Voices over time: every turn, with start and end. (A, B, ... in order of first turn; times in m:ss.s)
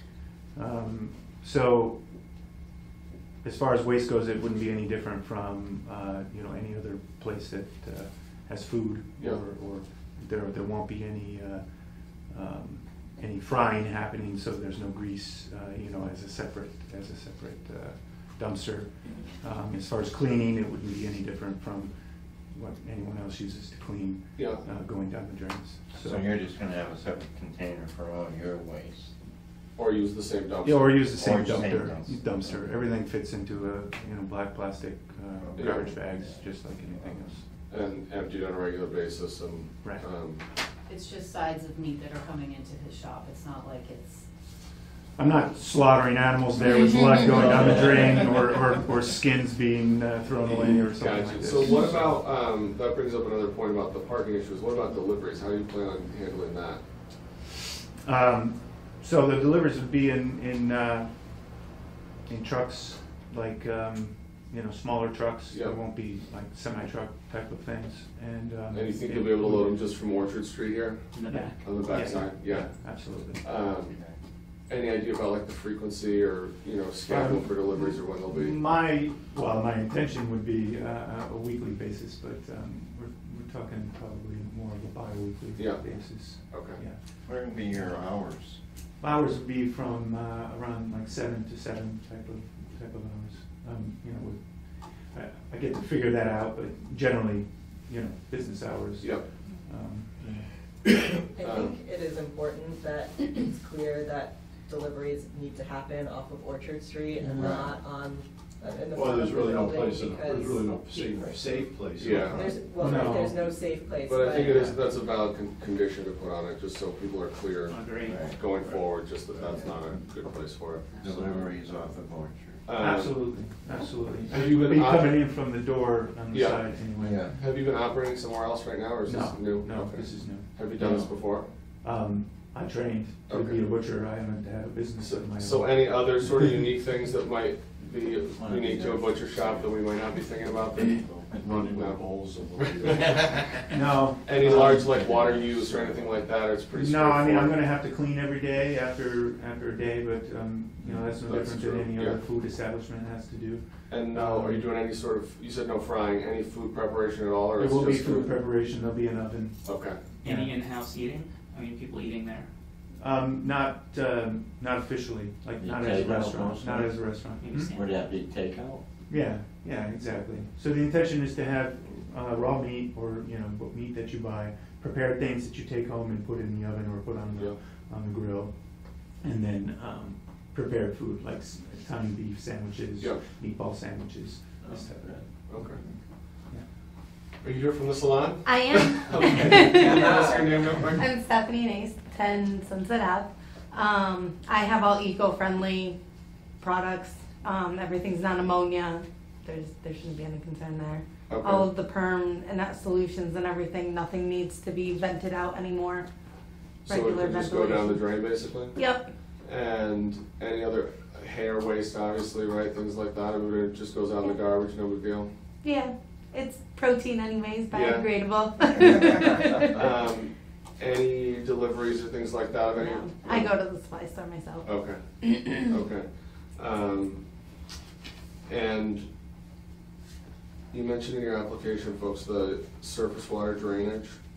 0:00.5-0:02.0 A
0:03.4-0:11.6 A
0:12.2-0:21.9 A
0:22.5-0:26.2 A
0:24.4-0:24.6 B
0:25.9-0:29.1 C
0:29.8-0:31.0 B
0:30.6-0:37.4 A
0:31.1-0:32.6 C
0:35.6-0:35.8 B
0:35.6-0:35.8 C
0:37.7-0:40.4 B
0:40.9-0:44.2 D
0:45.2-0:52.2 A
0:47.3-0:48.2 C
0:51.0-0:56.8 B
0:58.0-1:01.1 A
1:02.2-1:09.9 A
1:05.5-1:05.8 B
1:08.7-1:11.1 B
1:11.1-1:12.2 E
1:11.3-1:13.4 A
1:11.6-1:12.9 B
1:13.4-1:14.0 B
1:14.7-1:18.7 B
1:17.0-1:27.0 A
1:25.6-1:26.8 B
1:27.2-1:28.6 C
1:29.0-1:40.5 A
1:39.0-1:39.2 B
1:41.1-1:50.9 F
1:41.4-1:41.7 B
1:47.3-1:47.8 C
1:48.9-1:52.4 G
1:51.1-1:51.4 C
1:51.9-1:52.4 B
1:52.3-1:54.7 F
1:52.8-1:53.4 A
1:54.0-2:00.8 B
1:54.4-1:54.8 A
1:57.7-1:58.3 E
1:58.0-1:58.4 C
2:00.9-2:01.5 E
2:01.0-2:02.6 C
2:02.6-2:03.3 B
2:02.8-2:07.4 A
2:04.3-2:05.3 B
2:06.3-2:06.8 B
2:07.0-2:07.4 C
2:07.3-2:11.5 B
2:09.0-2:10.5 A
2:10.8-2:11.1 C
2:11.8-2:16.6 A
2:13.3-2:13.6 B
2:15.0-2:23.2 B
2:18.3-2:19.8 C
2:21.4-2:23.5 G
2:23.7-2:24.9 A
2:24.2-2:27.6 B
2:24.8-2:26.2 C
2:26.7-2:34.6 A
2:30.8-2:31.1 C
2:31.2-2:32.2 B
2:33.9-2:38.4 B
2:37.6-2:39.6 A
2:39.6-2:40.0 B
2:40.2-2:42.5 E
2:40.2-2:40.5 A
2:43.0-2:47.7 A
2:45.6-2:48.8 C
2:47.4-2:48.0 E
2:49.1-3:06.6 A
3:03.0-3:03.2 B
3:05.4-3:05.8 B
3:07.4-3:11.0 B
3:08.4-3:10.2 H
3:10.9-3:16.0 H
3:16.6-3:26.1 H
3:21.3-3:21.6 B
3:26.8-3:28.1 H
3:26.8-3:28.7 B
3:28.7-3:29.1 H
3:29.4-3:35.3 B
3:35.6-3:39.8 H
3:37.7-3:38.1 B
3:39.7-3:43.5 B
3:42.8-3:44.6 H
3:44.6-3:46.0 B
3:46.6-3:47.2 B
3:48.5-3:49.1 B
3:50.7-3:54.2 B